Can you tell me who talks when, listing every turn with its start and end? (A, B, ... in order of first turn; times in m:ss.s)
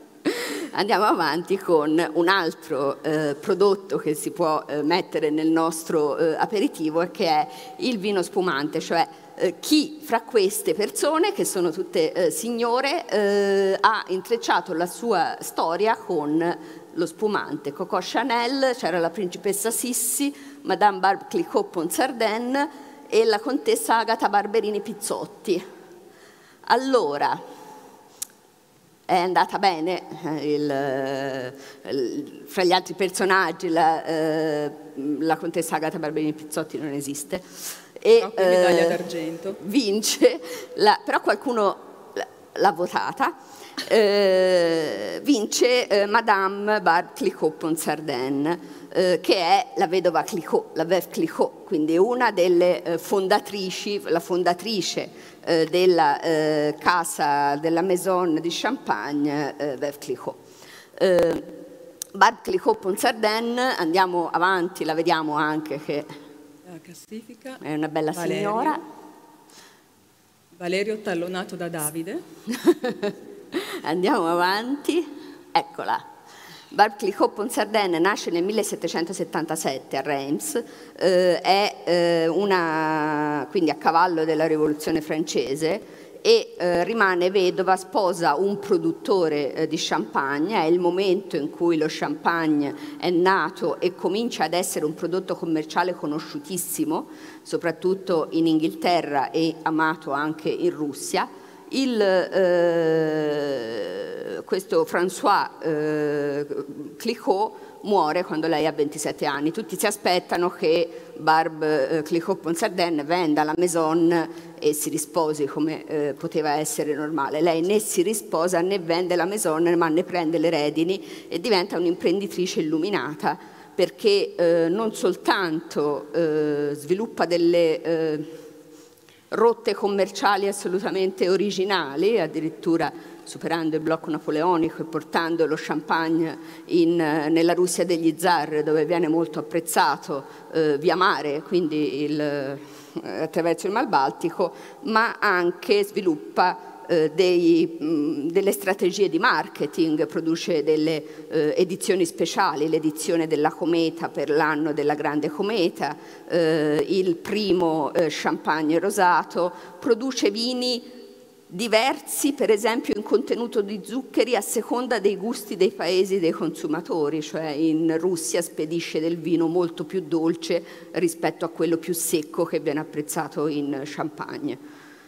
0:00.2-0:25.6 A
0:26.6-0:27.4 A
0:29.1-0:39.0 A
0:38.2-0:39.6 B
0:39.6-1:00.4 A
1:01.0-1:01.5 A
1:02.1-1:06.1 A
1:06.6-1:07.6 B
1:07.6-1:08.8 A
1:08.1-1:08.8 B
1:10.5-1:12.2 B
1:12.5-1:16.1 A
1:16.7-2:08.3 A
2:09.3-2:40.9 A
2:41.5-2:54.6 A